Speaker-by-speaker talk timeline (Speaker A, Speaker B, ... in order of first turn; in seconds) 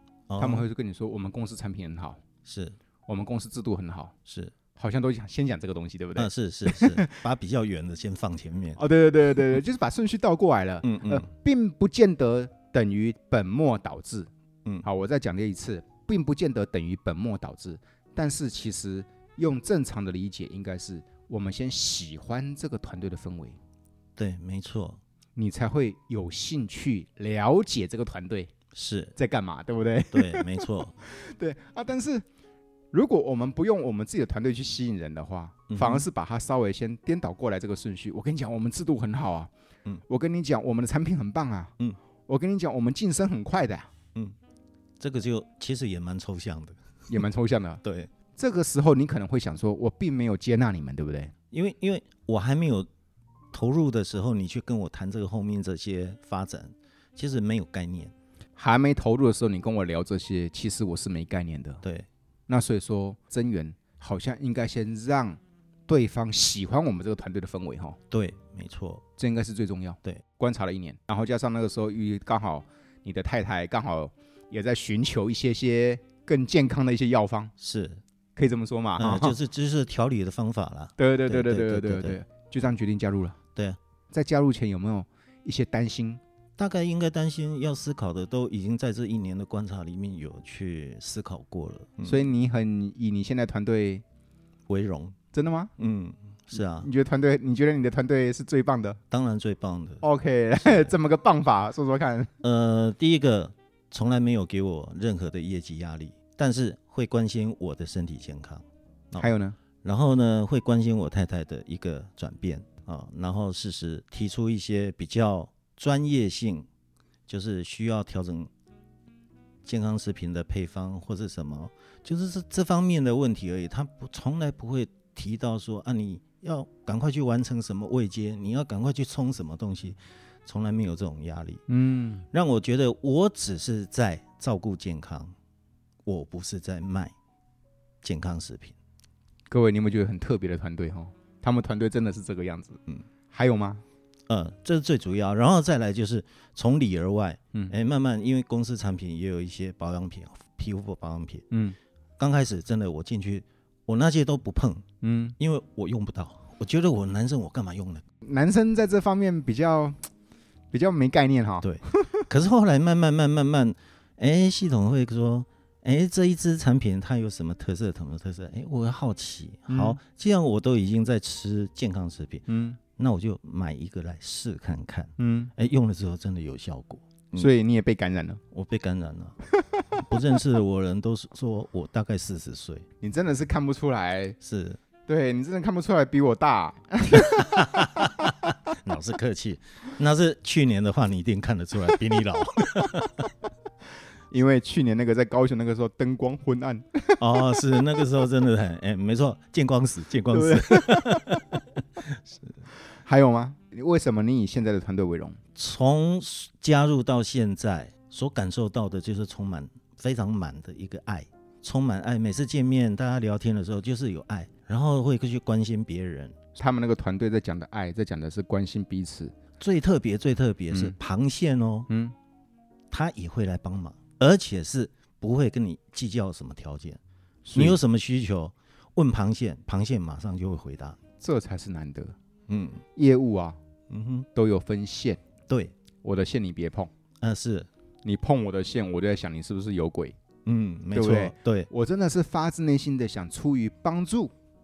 Speaker A: 0.3-0.7, 2.5-2.8, 4.3-4.5, 6.2-8.8, 10.8-11.3, 24.2-25.0, 28.7-29.1, 30.1-30.9, 35.7-36.1, 45.0-46.8, 47.8-48.1, 51.5-52.9, 53.5-58.1, 68.1-69.0, 77.6-78.0, 79.0-82.2, 86.6-92.2, 94.7-95.2, 95.8-96.9, 99.1-100.0, 100.6-100.9, 102.4-109.3, 109.8-116.7, 117.3-118.5, 119.7-131.6, 132.3-135.3, 136.1-137.1, 138.0-138.8, 144.3-151.4, 152.2-154.8, 155.4-158.0, 161.6-177.5, 178.5-179.4, 180.0-182.9, 184.4-184.8, 187.1-193.3, 197.2-202.5, 205.6-216.3, 219.6-221.9, 222.9-227.0, 227.6-231.0, 232.5-232.8, 233.9-234.3, 235.5-235.7, 237.2-237.7, 240.5-241.7
Speaker B: 0.4-2.2, 3.1-4.2, 4.8-7.2, 8.8-14.3, 14.8-23.6, 25.4-28.5, 29.2-32.2, 32.9-39.5, 40.1-41.7, 42.3-43.9, 47.1-47.8, 48.3-51.3, 58.6-61.8, 62.5-68.0, 69.2-77.5, 78.4-79.4, 81.0-83.4, 84.1-86.2, 92.0-94.0, 95.3-95.7, 96.5-99.0, 100.0-102.3, 109.2-109.6, 131.7-132.3, 139.5-142.8, 143.3-143.8, 151.5-151.8, 155.0-155.4, 158.2-160.0, 160.7-162.2, 169.7-170.0, 172.5-172.8, 175.2-175.5, 177.3-178.4, 183.0-184.4, 185.1-188.3, 194.3-197.2, 200.3-201.4, 203.0-205.4, 216.6-219.3, 220.7-221.0, 221.9-222.1, 227.4-227.8, 231.2-232.2, 233.0-233.6, 234.3-235.2, 236.0-236.9, 238.1-240.2, 240.9-244.3